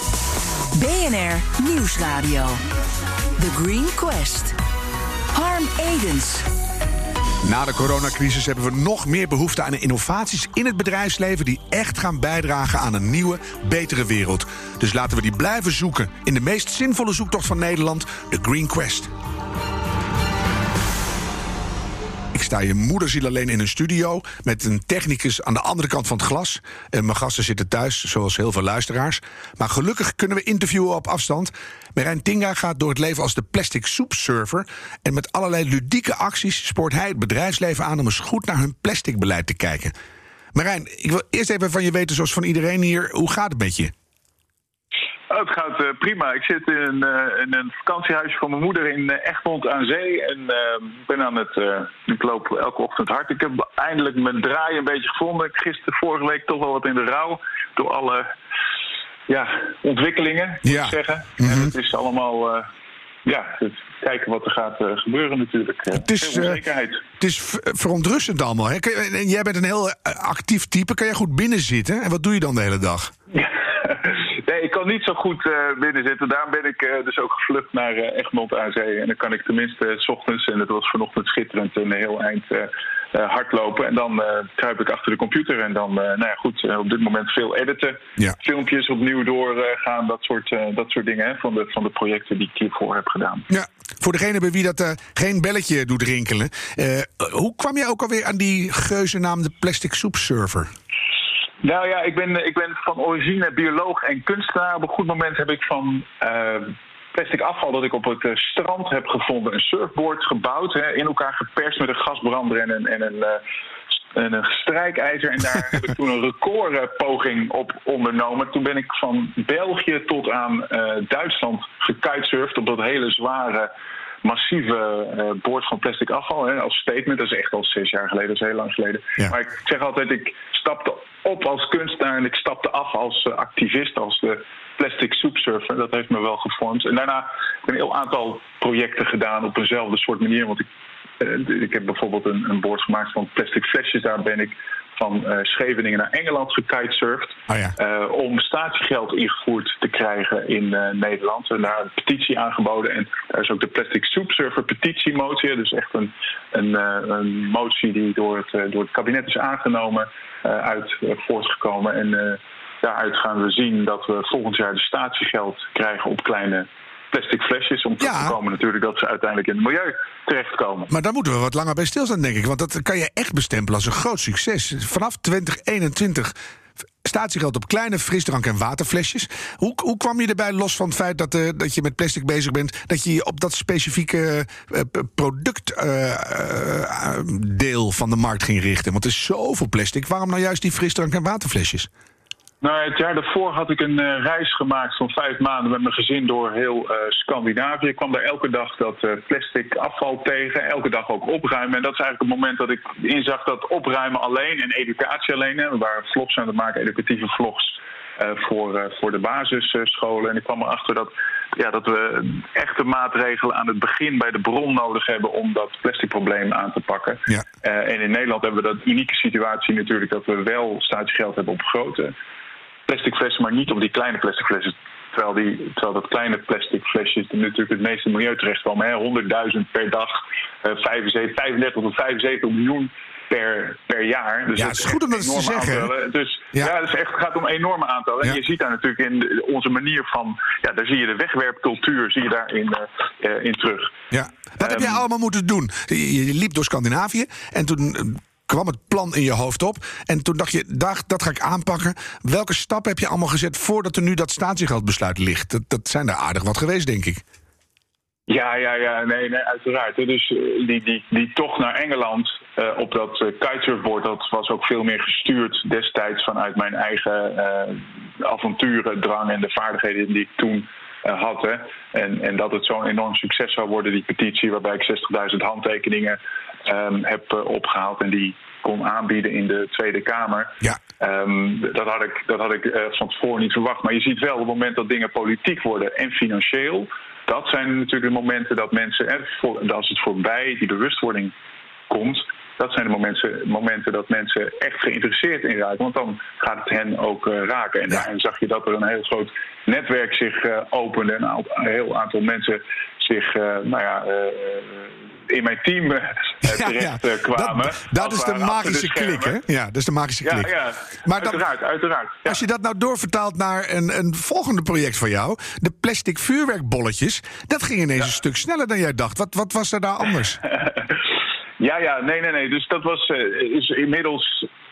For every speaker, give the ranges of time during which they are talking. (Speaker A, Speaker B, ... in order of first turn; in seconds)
Speaker A: 0.7-2.6, 3.4-4.6, 5.3-6.5
Speaker B: 7.4-19.1, 22.3-39.9, 40.5-43.9, 60.6-61.7, 65.9-66.6, 67.2-73.1, 93.5-100.7, 147.5-147.8, 168.0-168.4, 170.9-176.3, 177.0-191.9, 234.6-235.9, 244.1-257.2, 306.4-311.4, 312.2-320.4
Speaker C: 45.3-58.3, 59.3-62.7, 63.2-67.0, 73.3-93.5, 101.6-113.4, 114.1-123.7, 124.2-140.7, 141.2-170.9, 192.6-222.1, 222.9-244.0, 244.6-245.0, 258.3-291.3, 291.9-309.4, 310.2-312.4, 321.6-324.5